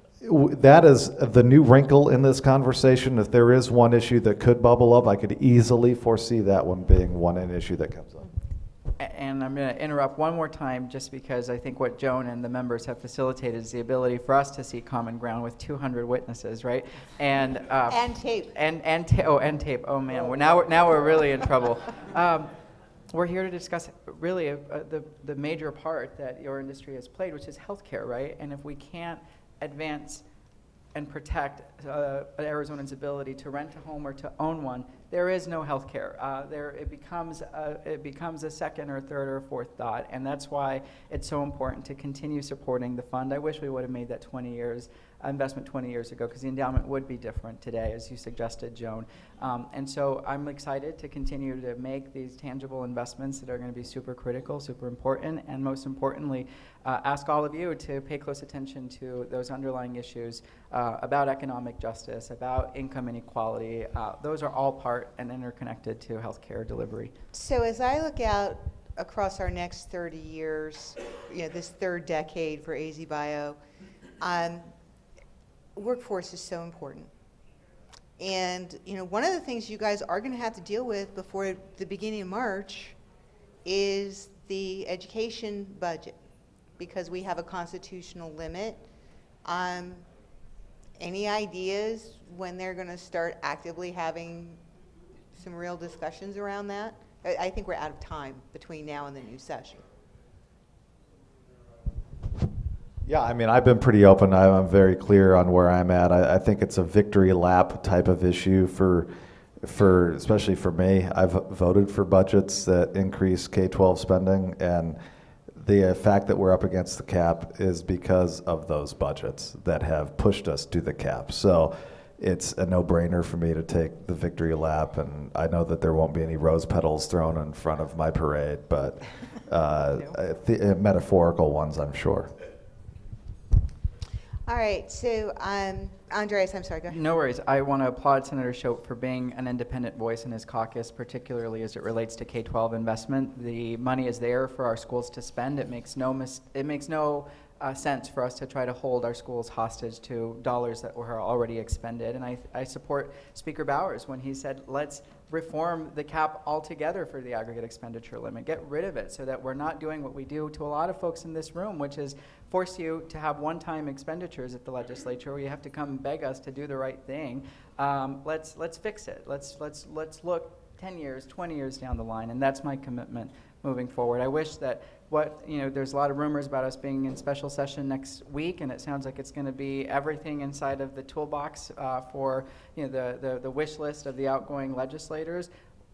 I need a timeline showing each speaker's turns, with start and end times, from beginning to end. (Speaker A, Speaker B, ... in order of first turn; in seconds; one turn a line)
Speaker A: 0.2-8.3
Speaker B: 9.0-22.5
Speaker C: 17.9-18.5
Speaker B: 23.1-30.2
Speaker B: 30.9-67.1
Speaker C: 67.3-73.6
Speaker C: 74.2-74.7
Speaker C: 75.8-77.1
Speaker C: 78.2-83.0
Speaker C: 83.7-86.2
Speaker C: 86.8-88.8
Speaker C: 89.5-90.1
Speaker C: 91.0-94.6
Speaker C: 95.3-99.8
Speaker A: 103.0-109.1
Speaker A: 109.6-115.0
Speaker A: 115.5-132.3
Speaker C: 134.5-137.0
Speaker B: 136.9-185.5